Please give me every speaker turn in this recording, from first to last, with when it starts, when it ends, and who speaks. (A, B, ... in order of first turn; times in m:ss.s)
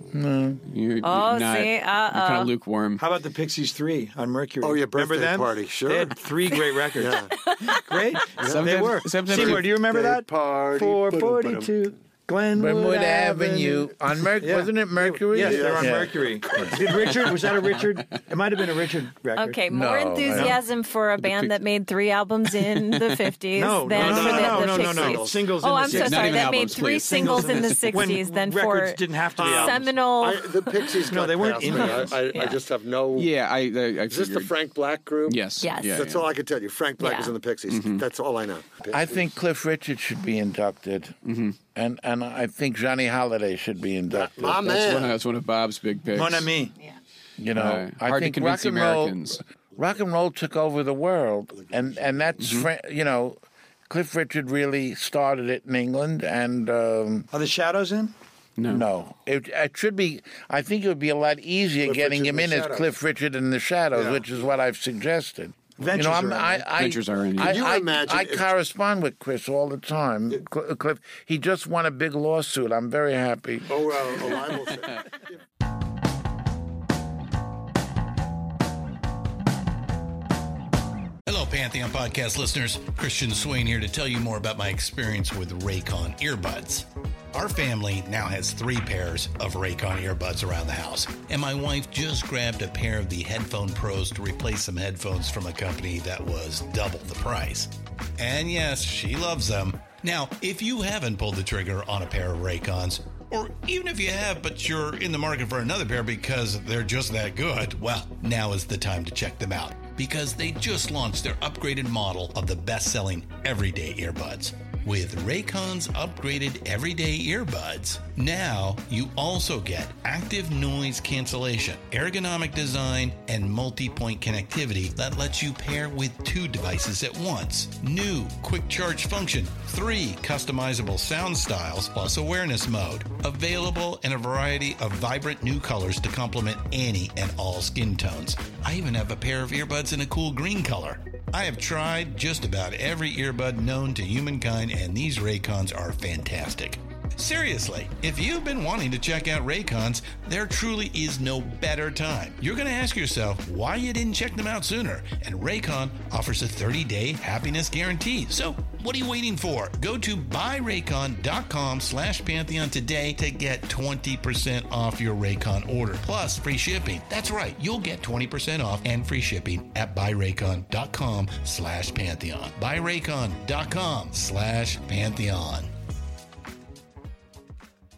0:00.1-0:00.6 A
0:00.6-0:03.0 B
0:01.0-0:02.5 C
0:03.0-0:07.2 D
0:04.6-0:07.3 E
0:07.8-0:19.6 D
0:08.4-0:11.9 E
0:08.5-0:09.7 B
0:12.6-0:16.1 A
0:15.3-0:17.4 E
0:19.4-0:31.0 C
0:19.7-0:20.6 A
0:20.3-0:20.6 D
0:21.2-0:21.6 B
0:22.5-0:23.2 B
0:23.6-0:29.9 D
0:23.9-0:25.5 E
0:25.8-0:28.1 B
0:29.4-0:33.3 E
0:31.0-0:32.4 D
0:31.6-0:32.6 C
0:33.1-0:34.5 B
0:34.0-0:39.3 E
0:35.3-0:36.3 B
0:35.6-0:36.0 C
0:37.0-0:37.3 C
0:37.7-0:38.0 B
0:38.9-0:41.2 A
0:41.2-0:41.6 B
0:41.7-0:45.0 A
0:44.1-0:45.2 E
0:44.8-0:46.5 B
0:46.1-0:46.7 D
0:47.4-0:57.3 A
0:47.5-0:49.4 B
0:52.4-0:52.7 B
0:57.3-0:58.1 D
0:58.6-0:58.8 B
0:58.7-1:14.3 A
1:01.8-1:02.9 E
1:03.9-1:04.3 E
1:05.8-1:06.7 D
1:06.7-1:07.6 B
1:07.4-1:08.5 E
1:13.7-1:15.3 E
1:21.2-2:55.7 F